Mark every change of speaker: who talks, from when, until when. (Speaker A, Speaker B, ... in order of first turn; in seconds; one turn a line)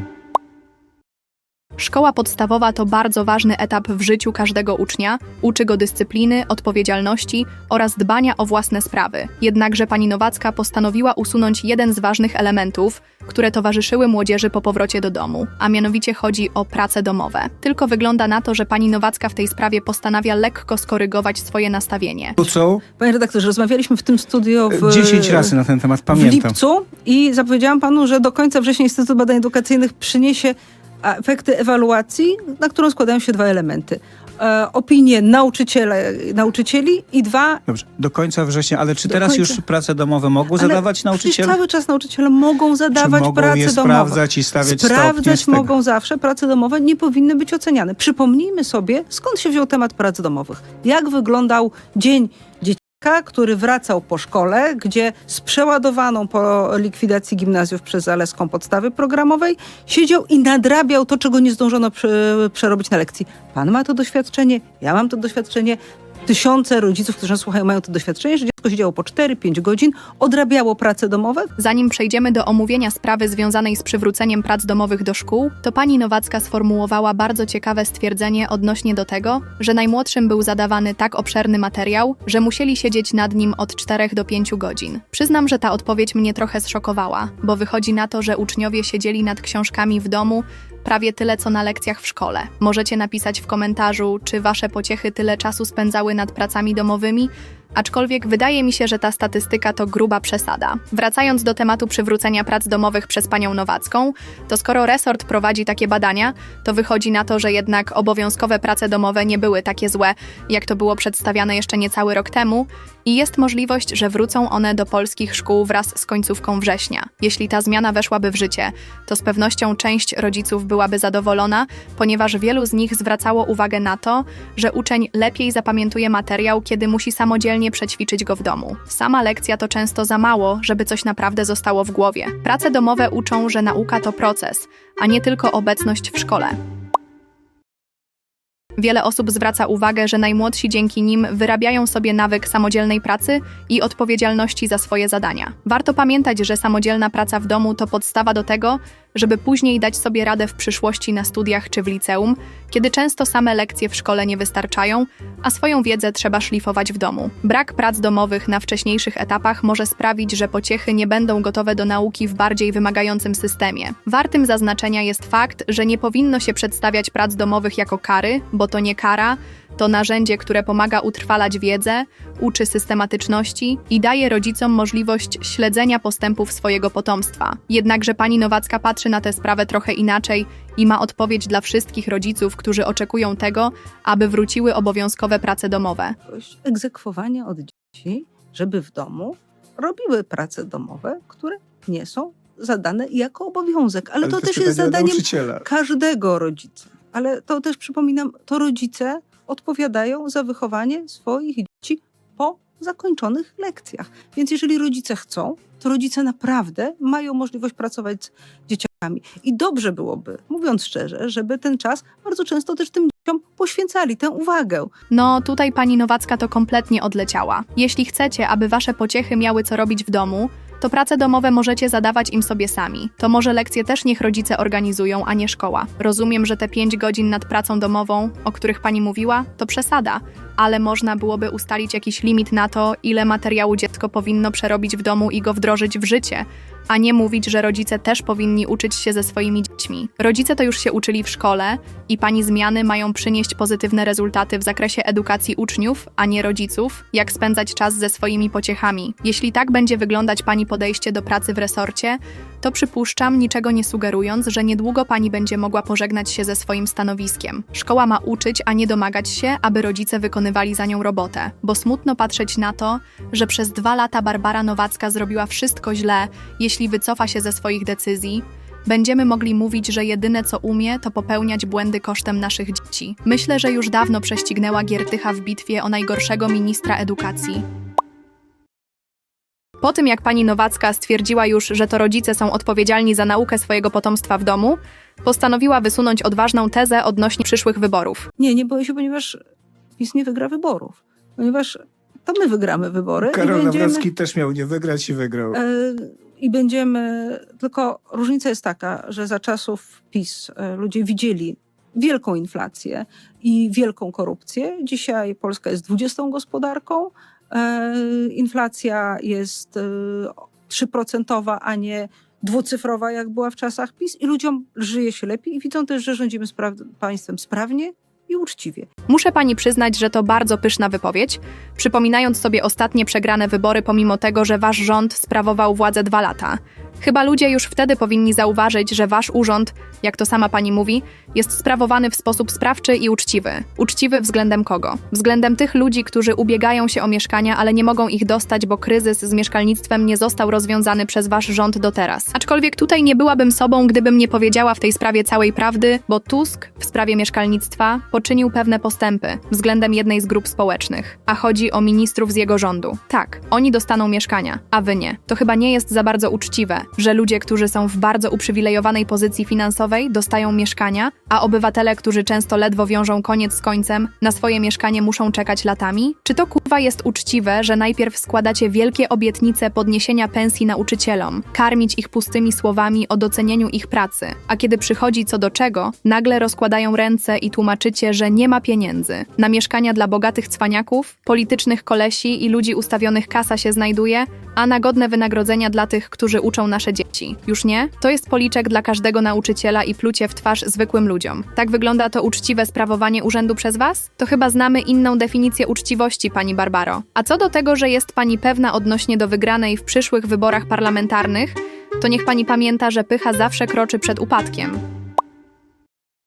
Speaker A: 1.8-22.4
Speaker B: 22.4-22.8
Speaker C: 23.0-25.6
Speaker B: 24.7-26.6
Speaker C: 26.1-37.6
Speaker B: 37.7-41.6
Speaker C: 39.0-39.6
Speaker C: 40.5-71.5
Speaker B: 42.9-45.7
Speaker A: 71.6-136.6
Speaker A: 138.8-186.2
Speaker C: 186.3-214.9
Speaker B: 194.2-195.7
Speaker A: 215.1-277.6
Speaker A: 279.8-288.3
Speaker C: 288.4-289.4
Speaker C: 290.0-294.1
Speaker B: 293.2-295.6
Speaker C: 295.5-318.9
Speaker A: 319.1-404.8